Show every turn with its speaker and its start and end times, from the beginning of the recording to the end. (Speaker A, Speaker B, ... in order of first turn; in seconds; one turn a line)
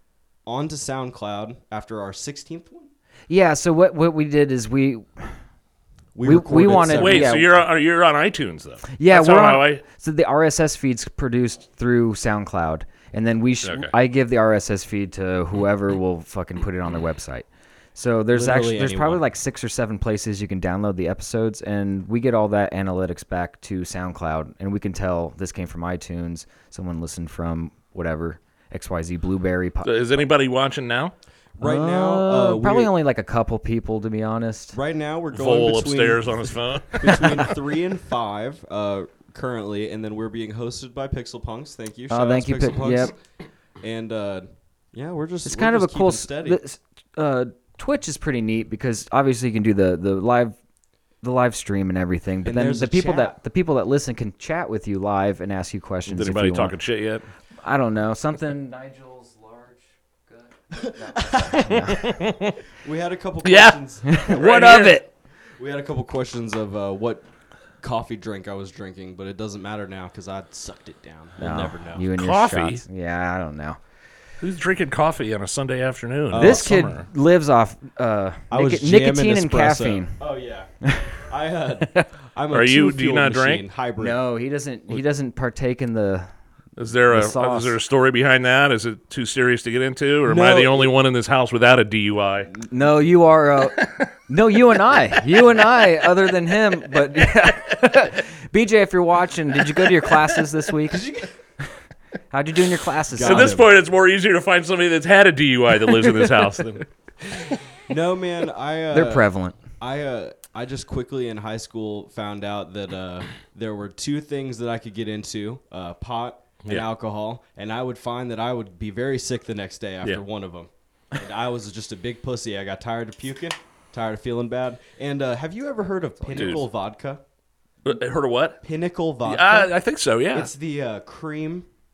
Speaker A: 0.5-2.9
Speaker B: 3.3-5.3
Speaker A: 6.1-7.5
Speaker B: 6.2-7.5
Speaker C: 6.9-9.8
Speaker B: 8.9-29.9
Speaker C: 13.6-13.9
Speaker A: 18.3-19.2
Speaker C: 29.8-31.1
Speaker A: 31.6-32.9
Speaker B: 31.6-34.8
Speaker A: 34.7-43.2
Speaker C: 35.3-37.3
Speaker B: 42.1-43.1
Speaker A: 43.8-46.6
Speaker B: 45.5-50.6
Speaker B: 51.2-56.8
Speaker A: 52.5-53.4
Speaker C: 56.1-57.3
Speaker B: 57.6-62.0
Speaker A: 60.8-61.7
Speaker C: 61.7-62.6
Speaker A: 62.7-64.9
Speaker C: 63.4-65.0
Speaker B: 64.1-65.1
Speaker A: 65.6-67.2
Speaker A: 67.8-72.0
Speaker B: 71.4-73.8
Speaker C: 72.1-72.8
Speaker C: 74.4-77.1
Speaker A: 76.3-76.7
Speaker B: 76.3-80.2
Speaker A: 78.5-80.7
Speaker B: 80.8-81.2
Speaker A: 81.2-84.2
Speaker B: 81.8-82.1
Speaker C: 82.5-83.7
Speaker B: 84.0-86.3
Speaker C: 86.8-92.5
Speaker B: 87.1-87.8
Speaker A: 90.2-90.9
Speaker B: 92.7-101.1
Speaker C: 93.8-94.1
Speaker C: 99.8-100.2
Speaker A: 100.9-101.3
Speaker B: 102.3-103.6
Speaker A: 103.1-103.7
Speaker C: 103.2-106.9
Speaker B: 105.9-106.3
Speaker A: 107.9-109.3
Speaker B: 108.9-109.6
Speaker A: 109.8-127.2
Speaker C: 126.3-126.7
Speaker C: 127.8-128.6
Speaker A: 128.6-129.7
Speaker C: 129.2-130.5
Speaker A: 130.3-131.7